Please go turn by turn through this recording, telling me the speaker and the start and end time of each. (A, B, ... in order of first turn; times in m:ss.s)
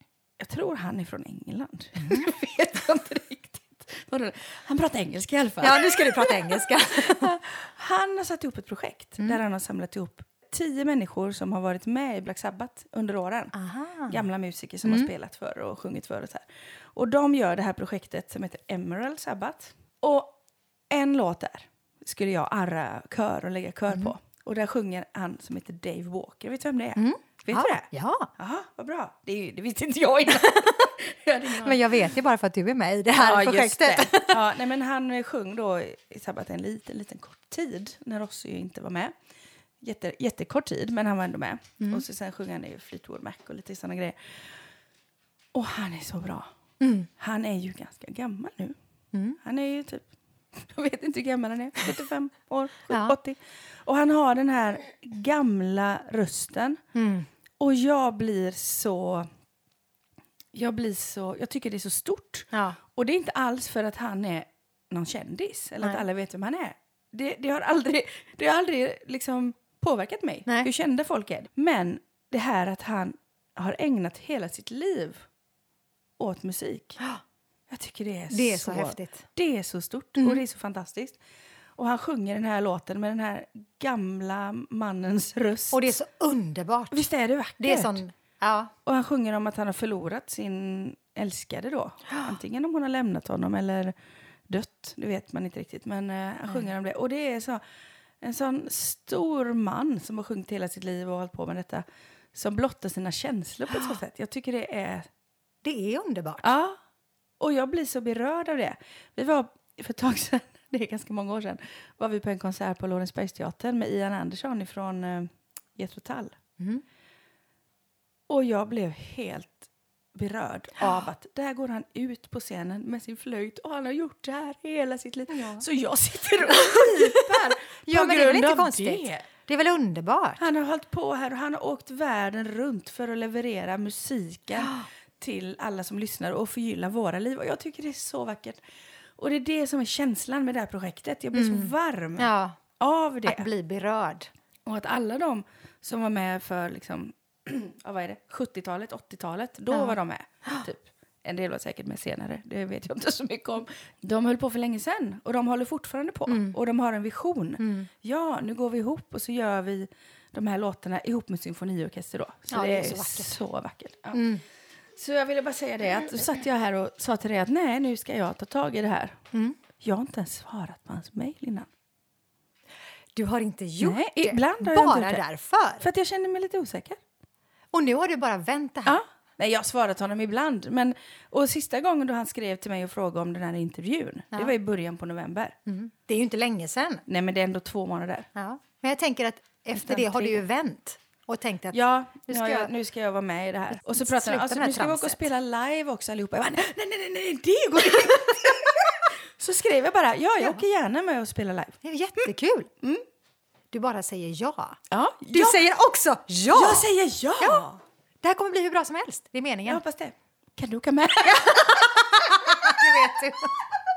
0:00.4-0:13.5 A
0:02.0-0:02.3 B
0:05.6-0:07.3 B
0:13.5-0:14.2 B
0:14.1-0:20.4 A
0:14.8-0:15.1 B
0:20.9-0:32.1 A
0:27.0-0:28.3 B
0:30.4-0:30.9 B
0:31.5-0:34.4 B
0:33.2-0:39.1 A
0:39.8-0:44.5 A
0:45.5-0:46.5 A
0:46.8-0:47.1 B
0:47.2-0:48.8 A
0:49.1-0:49.4 B
0:49.4-0:56.8 A
0:52.9-0:53.2 B
0:57.0-0:57.3 B
0:57.6-0:59.3 A
1:00.5-1:15.2 A
1:02.5-1:02.8 B
1:16.2-1:17.0 A
1:17.7-1:21.2 A
1:18.3-1:19.3 B
1:21.8-1:25.9 A
1:25.7-1:27.0 B
1:26.9-1:28.0 A
1:27.6-1:28.7 B
1:28.8-1:34.0 A
1:34.5-1:37.6 A
1:38.2-1:45.1 A
1:45.6-1:46.5 B
1:46.4-1:46.8 A
1:47.4-1:56.4 A
1:58.3-2:09.3 A
2:05.3-2:05.6 B
2:06.5-2:10.4 B
2:10.4-2:18.6 A
2:14.6-2:14.9 B
2:19.2-2:23.5 A
2:21.3-2:22.6 B
2:23.2-2:24.3 B
2:24.7-2:44.3 A
2:29.7-2:30.7 B
2:36.3-2:36.6 B
2:37.6-2:37.9 B
2:42.5-2:43.4 B
2:44.1-2:44.4 B
2:45.0-2:49.2 A
2:49.3-2:49.6 B
2:49.8-2:51.7 A
2:53.2-2:55.9 B
2:53.8-2:55.2 A
2:55.8-2:57.0 A
2:57.7-2:59.0 B
2:58.9-3:05.6 A
3:05.7-3:07.0 B
3:07.1-3:08.3 A
3:08.4-3:12.7 B
3:09.8-3:10.4 A
3:11.7-3:21.8 A
3:13.7-3:15.3 B
3:17.9-3:18.5 B
3:20.4-3:20.6 B
3:21.8-3:22.7 B
3:23.7-3:24.8 B
3:24.9-3:25.6 A
3:25.3-3:29.8 B
3:26.5-3:27.7 A
3:29.7-3:31.9 A
3:31.2-3:33.6 B